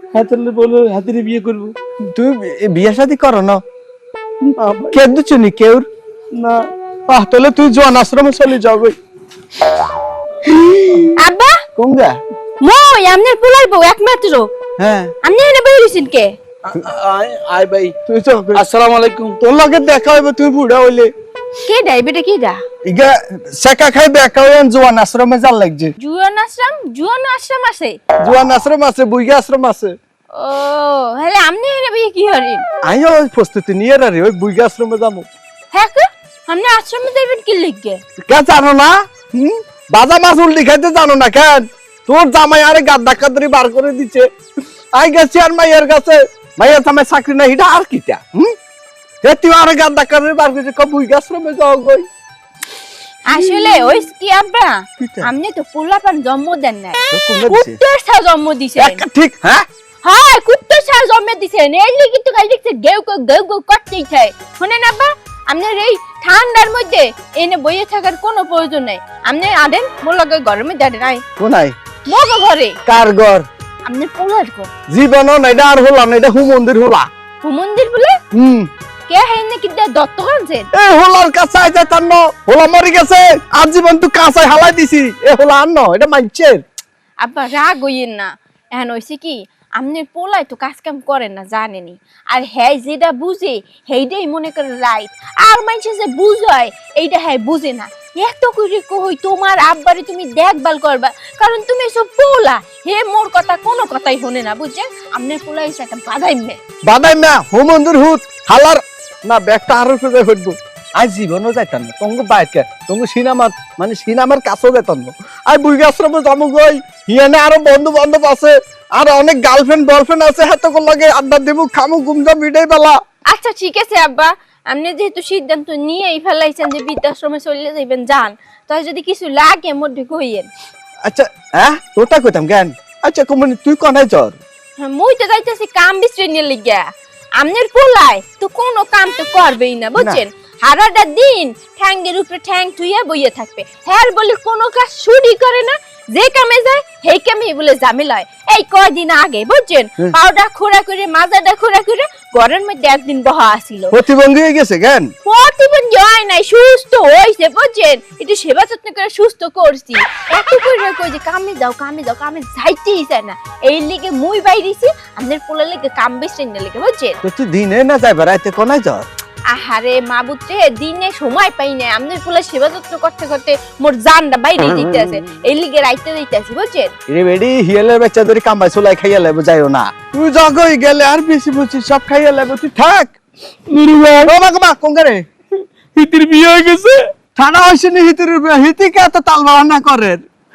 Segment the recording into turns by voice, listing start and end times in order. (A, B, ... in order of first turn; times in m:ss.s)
0:00.1-0:01.7 A
0:02.1-0:03.6 B
0:04.6-0:05.0 A
0:04.9-0:05.9 B
0:07.1-0:09.0 B
0:10.5-0:11.1 B
0:11.2-0:11.6 C
0:11.8-0:12.2 B
0:12.6-0:14.5 C
0:14.8-0:15.1 B
0:15.2-0:16.3 C
0:16.9-0:17.9 A
0:18.0-0:18.7 B
0:18.6-0:19.4 A
0:19.4-0:21.1 B
0:21.7-0:22.6 C
0:22.9-0:25.9 B
0:26.0-0:28.0 C
0:28.2-0:30.0 B
0:30.3-0:32.6 C
0:32.9-0:35.3 B
0:35.7-0:38.0 C
0:38.3-0:44.2 B
0:45.0-0:48.5 B
0:49.2-0:52.0 B
0:53.3-0:59.0 C
0:55.0-0:55.3 B
0:57.1-0:57.8 B
0:58.8-0:59.7 B
1:00.0-1:11.2 C
1:11.4-1:11.8 B
1:12.0-1:12.8 C
1:12.9-1:13.5 B
1:13.8-1:14.7 C
1:14.9-1:17.1 B
1:17.4-1:18.2 C
1:18.3-1:18.7 B
1:19.1-1:20.7 C
1:20.8-1:26.6 B
1:27.2-1:46.6 C
1:46.9-2:03.0 B
2:03.3-2:10.5 C
2:11.0-2:14.4 B
2:14.8-2:16.9 C
2:17.4-2:33.9 C
2:20.0-2:20.2 B
2:33.9-2:35.1 B
2:35.2-2:47.2 C
2:47.2-2:49.1 B
2:49.5-2:56.9 C
2:54.6-2:55.2 B
2:57.1-3:03.2 B
3:03.7-3:04.2 A
3:04.2-3:05.2 B
3:06.0-3:07.0 A
3:07.4-3:10.2 B